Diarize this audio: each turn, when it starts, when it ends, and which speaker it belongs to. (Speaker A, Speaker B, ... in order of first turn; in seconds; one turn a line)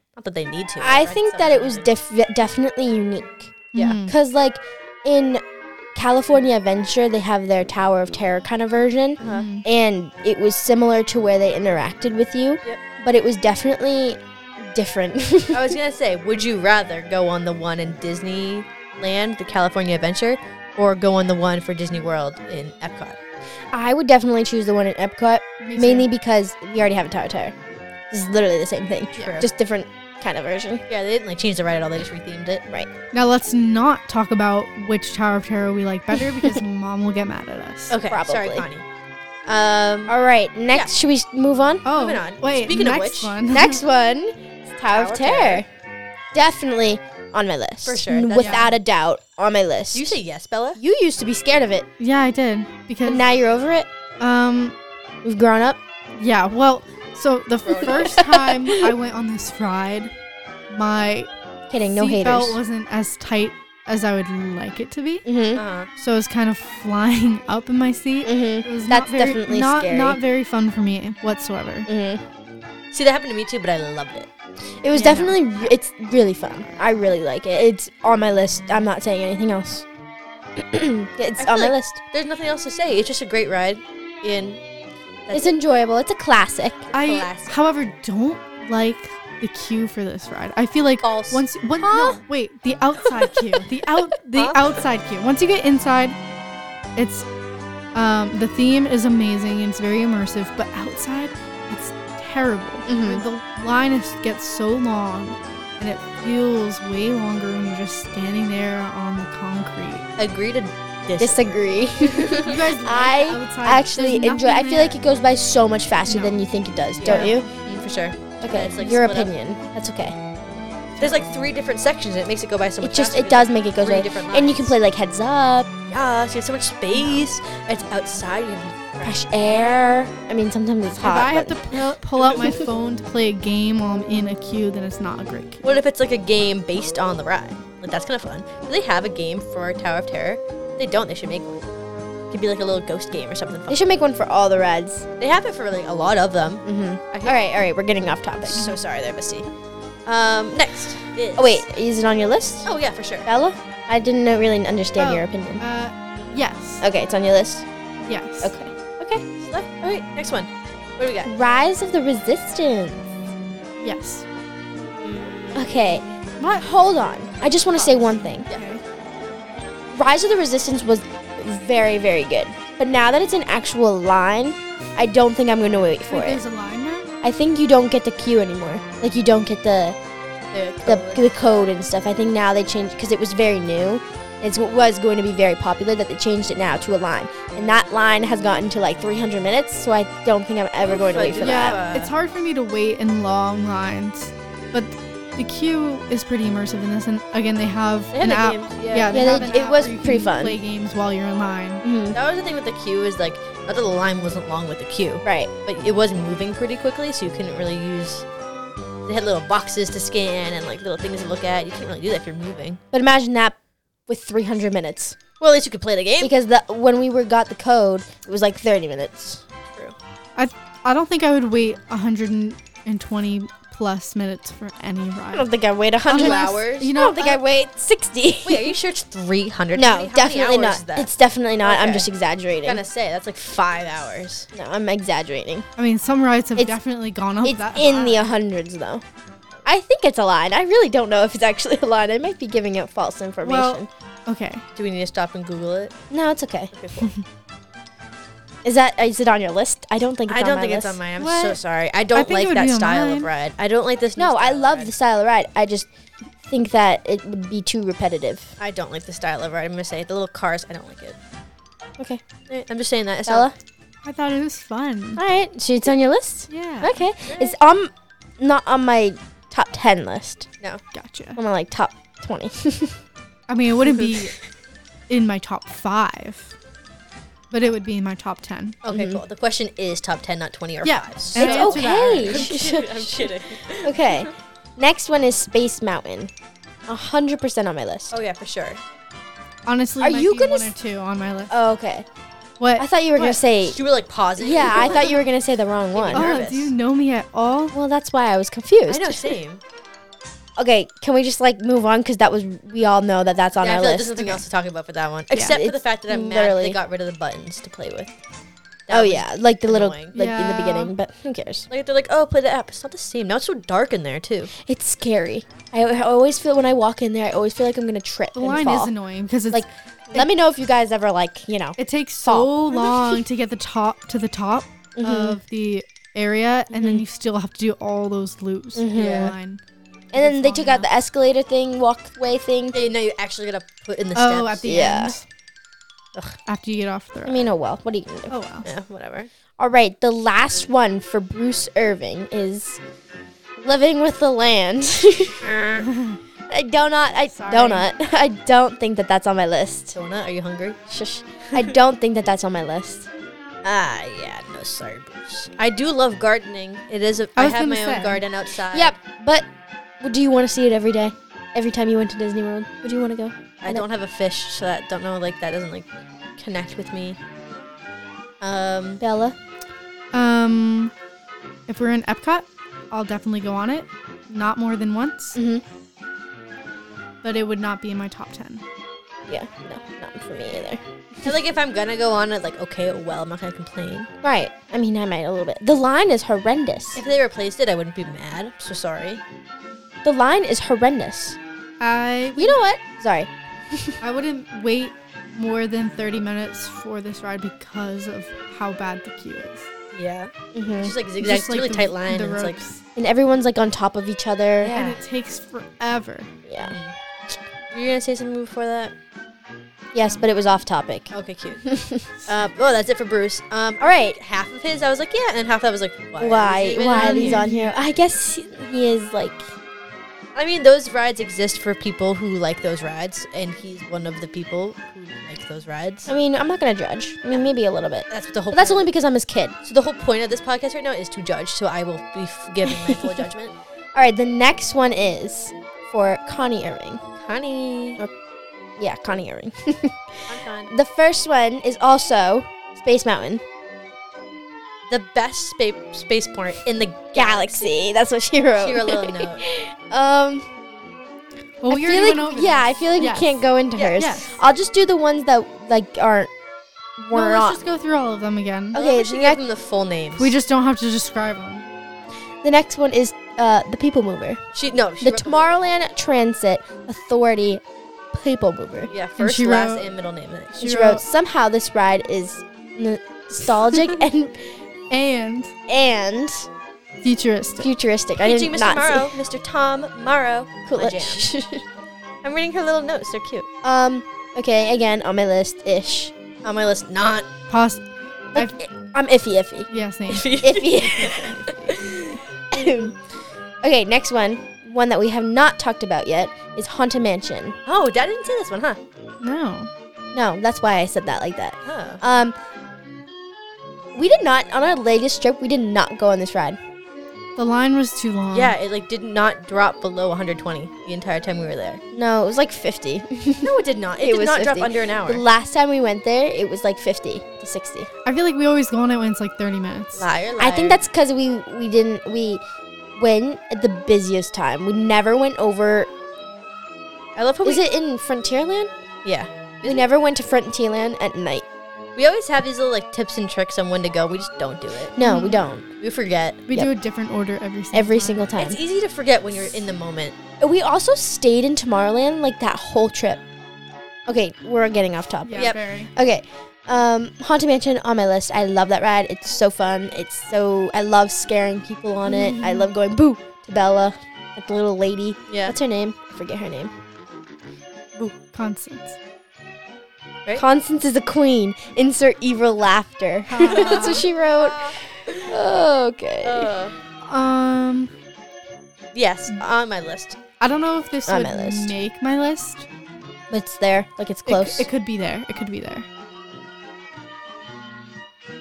Speaker A: 0.2-1.9
Speaker B: 0.8-5.4
Speaker C: 3.7-4.1
Speaker B: 6.0-15.8
Speaker A: 9.2-9.5
Speaker C: 9.2-9.7
Speaker A: 15.5-23.2
Speaker B: 23.7-27.6
Speaker C: 25.6-26.1
Speaker B: 28.1-30.8
Speaker C: 29.2-29.4
Speaker A: 29.2-29.5
Speaker A: 30.9-32.6
Speaker C: 33.1-38.0
Speaker B: 36.4-36.6
Speaker A: 37.9-38.9
Speaker B: 38.0-38.7
Speaker A: 39.5-40.1
Speaker B: 40.1-41.9
Speaker C: 41.9-43.8
Speaker A: 41.9-43.4
Speaker B: 43.5-45.7
Speaker A: 44.9-45.6
Speaker B: 46.3-50.2
Speaker A: 47.9-48.7
Speaker C: 48.4-48.7
Speaker A: 49.9-50.8
Speaker B: 50.8-51.9
Speaker C: 52.0-53.2
Speaker B: 53.1-53.9
Speaker C: 54.2-54.8
Speaker B: 55.2-55.8
Speaker C: 56.2-60.1
Speaker A: 57.7-58.2
Speaker B: 57.9-58.9
Speaker C: 60.7-61.3
Speaker B: 61.7-62.6
Speaker C: 61.9-65.2
Speaker B: 65.2-65.6
Speaker A: 65.5-65.9
Speaker C: 66.0-71.9
Speaker B: 68.2-70.2
Speaker B: 71.9-72.2
Speaker A: 72.9-74.3
Speaker B: 74.8-79.8
Speaker C: 74.9-75.4
Speaker B: 80.6-82.0
Speaker A: 81.4-84.6
Speaker A: 85.3-85.5
Speaker B: 85.3-86.9
Speaker A: 86.9-87.6
Speaker C: 86.9-96.2
Speaker A: 91.0-91.5
Speaker B: 91.8-92.2
Speaker A: 94.3-94.8
Speaker C: 97.0-97.2
Speaker C: 97.9-110.1
Speaker B: 102.9-103.2
Speaker A: 110.2-112.6
Speaker B: 111.2-117.5
Speaker C: 112.4-115.0
Speaker C: 116.1-116.4
Speaker A: 117.0-119.3
Speaker C: 117.0-117.4
Speaker B: 118.4-120.2
Speaker A: 121.0-124.8
Speaker B: 122.8-125.8
Speaker A: 125.9-130.0
Speaker C: 127.0-127.2
Speaker B: 129.0-131.6
Speaker C: 131.0-135.7
Speaker A: 135.6-141.7
Speaker A: 142.3-143.8
Speaker B: 143.7-145.1
Speaker A: 145.2-147.4
Speaker B: 146.6-148.7
Speaker A: 148.5-149.5
Speaker A: 150.1-151.6
Speaker B: 151.4-152.7
Speaker A: 152.7-153.3
Speaker B: 153.2-155.6
Speaker C: 155.0-156.8
Speaker B: 156.8-157.7
Speaker C: 158.1-158.5
Speaker B: 158.4-158.7
Speaker A: 159.0-161.3
Speaker B: 161.2-163.1
Speaker C: 163.8-164.2
Speaker A: 165.0-165.6
Speaker B: 165.5-168.5
Speaker C: 168.2-168.8
Speaker B: 169.9-176.4
Speaker C: 176.1-177.1
Speaker B: 177.2-180.0
Speaker A: 180.5-181.7
Speaker B: 180.8-191.8
Speaker A: 190.8-192.1
Speaker C: 191.4-201.8
Speaker A: 198.1-199.5
Speaker B: 199.1-200.6
Speaker B: 201.8-202.2
Speaker A: 202.1-208.2
Speaker B: 205.2-205.5
Speaker A: 209.1-212.8
Speaker B: 212.9-215.2
Speaker A: 215.4-216.3
Speaker B: 216.2-219.4
Speaker C: 220.4-225.5
Speaker B: 225.3-228.8
Speaker C: 226.1-227.4
Speaker A: 226.1-226.9
Speaker A: 228.4-232.1
Speaker B: 229.7-232.8
Speaker A: 232.6-234.5
Speaker B: 234.5-235.7
Speaker C: 235.8-238.3
Speaker B: 237.4-239.0
Speaker B: 239.7-243.9
Speaker C: 243.4-244.7
Speaker A: 244.8-245.9
Speaker B: 246.1-246.7
Speaker A: 246.7-247.1
Speaker B: 248.6-251.0
Speaker A: 250.3-254.9
Speaker C: 251.2-251.6
Speaker C: 252.1-253.3
Speaker B: 254.2-255.9
Speaker B: 256.5-258.5
Speaker A: 258.6-261.2
Speaker B: 262.0-262.2
Speaker A: 262.5-263.5
Speaker B: 263.3-263.6
Speaker C: 264.1-265.2
Speaker B: 265.2-270.5
Speaker C: 266.5-266.9
Speaker A: 267.2-267.5
Speaker C: 270.9-271.4
Speaker B: 271.4-273.0
Speaker C: 273.5-274.4
Speaker A: 273.9-274.2
Speaker C: 275.1-276.5
Speaker C: 277.5-278.8
Speaker A: 278.9-284.3
Speaker B: 278.9-279.2
Speaker C: 280.8-282.5
Speaker B: 281.3-286.3
Speaker B: 286.9-288.2
Speaker A: 288.1-288.8
Speaker C: 289.7-291.5
Speaker B: 290.0-290.7
Speaker B: 291.5-292.1
Speaker C: 292.6-292.9
Speaker B: 292.8-293.8
Speaker A: 293.2-295.2
Speaker B: 294.4-296.4
Speaker A: 295.9-296.7
Speaker C: 296.1-297.8
Speaker B: 297.7-299.4
Speaker A: 298.9-299.6
Speaker B: 300.6-304.4
Speaker A: 303.6-308.1
Speaker C: 305.3-305.6
Speaker B: 305.5-306.8
Speaker A: 308.9-310.1
Speaker B: 308.9-311.7
Speaker C: 310.1-310.9
Speaker A: 311.7-314.5
Speaker B: 314.6-318.9
Speaker C: 318.4-319.7
Speaker B: 319.5-323.2
Speaker C: 321.8-329.6
Speaker B: 325.0-325.4
Speaker B: 326.7-327.0
Speaker B: 328.8-329.4
Speaker A: 328.9-329.3
Speaker B: 330.1-332.8
Speaker C: 330.1-330.9
Speaker A: 332.7-334.7
Speaker C: 334.1-335.2
Speaker B: 334.6-335.2
Speaker C: 336.5-337.5
Speaker B: 337.2-338.3
Speaker C: 338.3-338.7
Speaker A: 338.6-339.3
Speaker B: 339.6-342.8
Speaker B: 343.6-345.5
Speaker A: 345.4-345.9
Speaker C: 345.8-346.2
Speaker B: 346.5-350.0
Speaker C: 347.2-347.9
Speaker A: 349.9-350.8
Speaker B: 350.9-353.1
Speaker A: 353.6-358.9
Speaker C: 357.4-358.2
Speaker B: 358.7-359.5
Speaker B: 360.0-363.9
Speaker A: 363.6-365.9
Speaker A: 366.4-367.2
Speaker A: 368.4-369.0
Speaker B: 369.0-369.4
Speaker C: 370.1-370.9
Speaker C: 371.7-375.4
Speaker B: 375.4-375.6
Speaker C: 377.2-378.6
Speaker B: 379.3-381.3
Speaker A: 381.2-384.1
Speaker B: 384.2-387.0
Speaker A: 386.9-389.2
Speaker B: 390.0-391.4
Speaker C: 391.8-392.6
Speaker B: 392.4-393.9
Speaker C: 394.0-399.7
Speaker A: 399.9-402.6
Speaker B: 400.5-400.9
Speaker C: 401.2-402.8
Speaker B: 403.0-405.0
Speaker C: 404.6-406.3
Speaker A: 404.7-404.9
Speaker B: 406.4-406.8
Speaker A: 406.6-406.9
Speaker A: 407.7-408.9
Speaker B: 409.9-411.1
Speaker A: 411.1-411.7
Speaker B: 411.6-412.1
Speaker A: 412.2-417.5
Speaker B: 413.8-414.2
Speaker B: 416.2-419.5
Speaker C: 416.9-417.8
Speaker A: 420.4-426.1
Speaker B: 426.1-429.6
Speaker A: 428.1-428.9
Speaker A: 429.6-433.5
Speaker B: 432.7-433.2
Speaker B: 433.9-437.0
Speaker A: 437.2-438.0
Speaker B: 438.8-443.4
Speaker A: 440.3-440.7
Speaker A: 444.9-447.7
Speaker B: 447.1-450.5
Speaker A: 448.6-449.5
Speaker C: 451.6-453.3
Speaker B: 451.7-456.3
Speaker A: 453.8-454.1
Speaker C: 454.0-454.4
Speaker B: 457.0-457.6
Speaker C: 457.1-458.8
Speaker B: 458.7-459.4
Speaker A: 458.7-460.3
Speaker C: 460.2-461.7
Speaker B: 462.4-464.4
Speaker A: 464.5-465.5
Speaker B: 465.0-468.9
Speaker A: 468.9-470.6
Speaker C: 469.2-469.9
Speaker B: 470.6-474.5
Speaker C: 470.6-471.0
Speaker C: 474.9-475.5
Speaker B: 475.7-476.5
Speaker C: 477.0-477.7
Speaker B: 477.6-479.1
Speaker A: 478.2-481.3
Speaker B: 480.7-481.6
Speaker A: 482.2-483.5
Speaker B: 483.6-486.1
Speaker A: 486.4-487.3
Speaker C: 487.5-487.8
Speaker B: 488.3-489.7
Speaker C: 489.7-490.3
Speaker A: 490.1-491.9
Speaker B: 490.3-493.0
Speaker B: 493.6-497.6
Speaker A: 497.6-498.8
Speaker C: 499.2-499.7
Speaker B: 500.1-502.4
Speaker A: 501.6-502.0
Speaker B: 503.9-506.6
Speaker C: 507.4-508.6
Speaker A: 508.3-511.8
Speaker B: 511.9-517.9
Speaker A: 513.4-515.2
Speaker C: 518.0-520.1
Speaker A: 520.0-520.8
Speaker B: 520.4-522.4
Speaker B: 523.0-525.9
Speaker A: 527.1-527.6
Speaker B: 527.4-528.7
Speaker A: 529.0-529.9
Speaker B: 529.6-531.5
Speaker A: 532.0-535.0
Speaker B: 535.0-535.7
Speaker C: 535.0-535.4
Speaker A: 535.8-536.4
Speaker C: 536.5-538.3
Speaker B: 537.7-538.6
Speaker A: 538.4-540.1
Speaker B: 540.4-543.2
Speaker B: 544.1-556.7
Speaker C: 545.2-545.9
Speaker C: 552.1-552.7
Speaker A: 555.3-555.6
Speaker C: 558.0-559.0
Speaker B: 560.4-566.6
Speaker C: 563.3-564.0
Speaker A: 563.4-565.4
Speaker A: 566.2-566.8
Speaker C: 567.1-567.9
Speaker A: 568.9-570.2
Speaker C: 570.4-572.7
Speaker B: 571.1-571.7
Speaker B: 573.3-574.7
Speaker C: 574.3-575.9